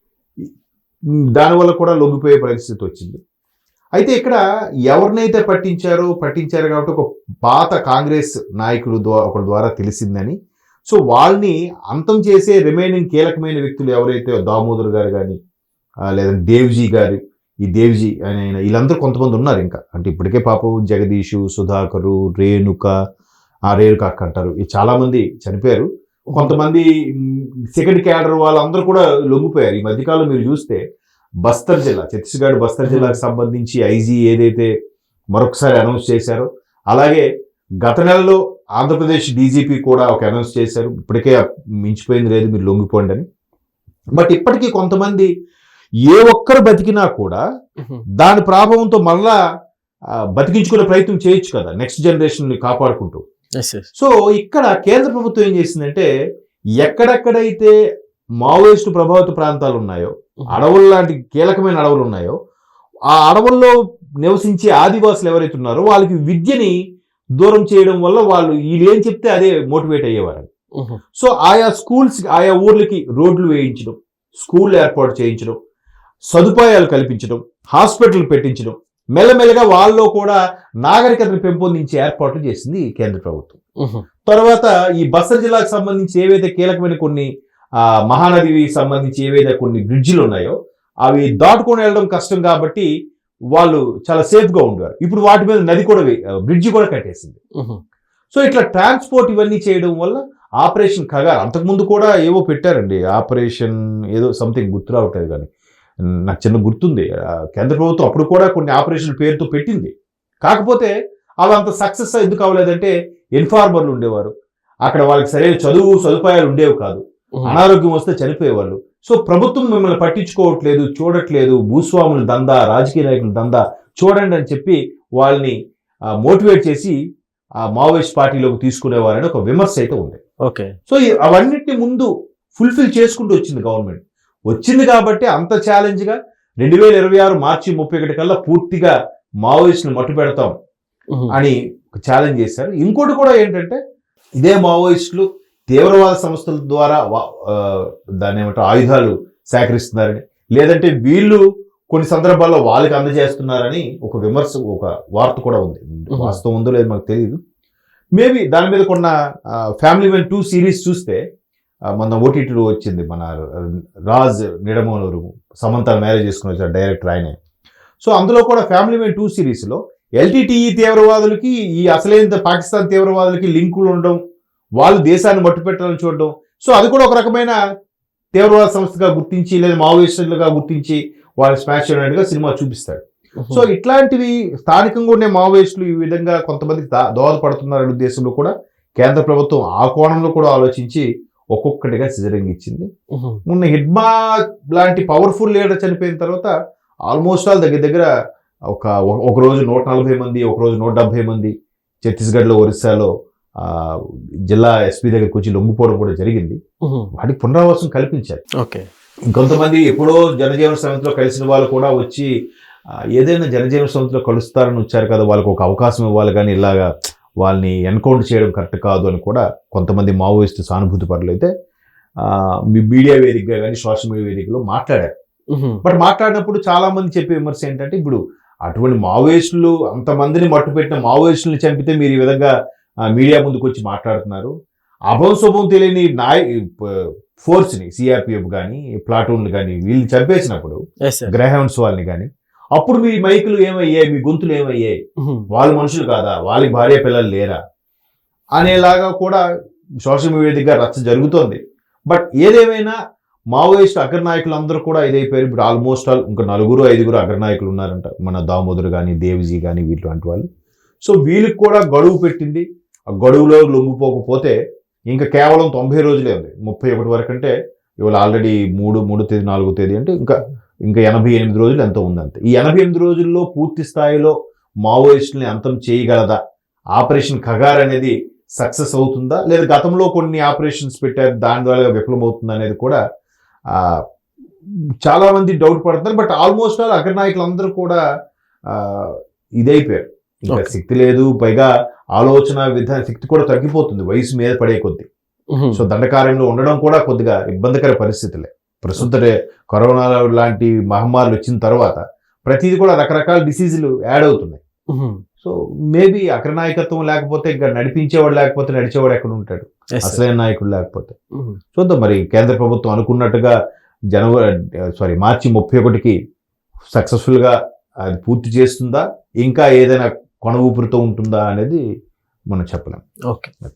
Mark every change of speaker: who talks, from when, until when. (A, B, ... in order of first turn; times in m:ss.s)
0:01.4-0:03.2 A
0:04.0-0:10.4 A
0:10.9-0:15.4 A
0:16.1-0:22.9 A
0:23.7-0:30.8 A
0:26.3-0:26.6 B
0:31.4-0:34.7 A
0:32.9-0:33.2 B
0:35.4-0:37.3 A
0:37.8-0:43.2 A
0:44.2-0:45.3 A
0:46.1-0:47.4 A
0:48.2-0:49.3 A
0:50.4-0:53.2 A
0:53.6-0:53.9 B
0:54.0-0:56.1 A
0:56.8-0:57.7 A
0:58.4-1:02.4 A
1:03.1-1:06.8 A
1:07.4-1:10.5 A
1:11.2-1:15.6 A
1:16.3-1:23.6 A
1:24.3-1:27.3 A
1:28.1-1:32.9 A
1:33.6-1:37.4 A
1:38.3-1:45.5 A
1:46.3-1:49.9 A
1:50.5-1:50.9 A
1:51.4-1:54.3 A
1:54.9-2:05.5 A
2:06.2-2:07.0 A
2:07.7-2:10.2 A
2:10.4-2:10.7 B
2:10.9-2:20.5 A
2:21.3-2:23.8 A
2:24.4-2:37.4 A
2:36.1-2:36.4 B
2:38.2-2:39.1 A
2:39.8-2:41.2 A
2:41.9-2:47.4 A
2:48.0-2:54.2 A
2:54.8-2:57.6 A
2:58.4-3:12.9 A
3:03.4-3:03.7 B
3:13.2-3:13.4 B
3:13.5-3:14.1 A
3:14.7-3:16.5 A
3:17.1-3:18.1 A
3:18.7-3:21.5 A
3:22.0-3:26.6 A
3:27.2-3:28.4 A
3:29.3-3:32.3 A
3:33.2-3:36.9 A
3:37.4-3:41.5 A
3:42.2-3:45.1 A
3:45.5-3:45.8 B
3:45.8-3:52.5 A
3:53.1-3:54.5 A
3:55.1-4:05.0 A
4:01.1-4:01.3 B
4:05.2-4:05.5 B
4:05.5-4:07.6 A
4:08.6-4:09.4 A
4:10.0-4:13.0 A
4:13.5-4:20.4 A
4:21.0-4:24.6 A
4:25.1-4:36.4 A
4:37.0-4:43.0 A
4:43.7-4:44.0 A
4:45.0-4:48.0 A
4:48.7-4:55.1 A
4:55.5-4:55.8 B
4:55.8-5:04.6 A
5:04.9-5:05.2 B
5:05.4-5:11.2 A
5:10.0-5:10.2 B
5:11.8-5:13.6 A
5:14.1-5:16.2 A
5:17.0-5:17.6 A
5:18.1-5:21.8 A
5:22.5-5:23.0 A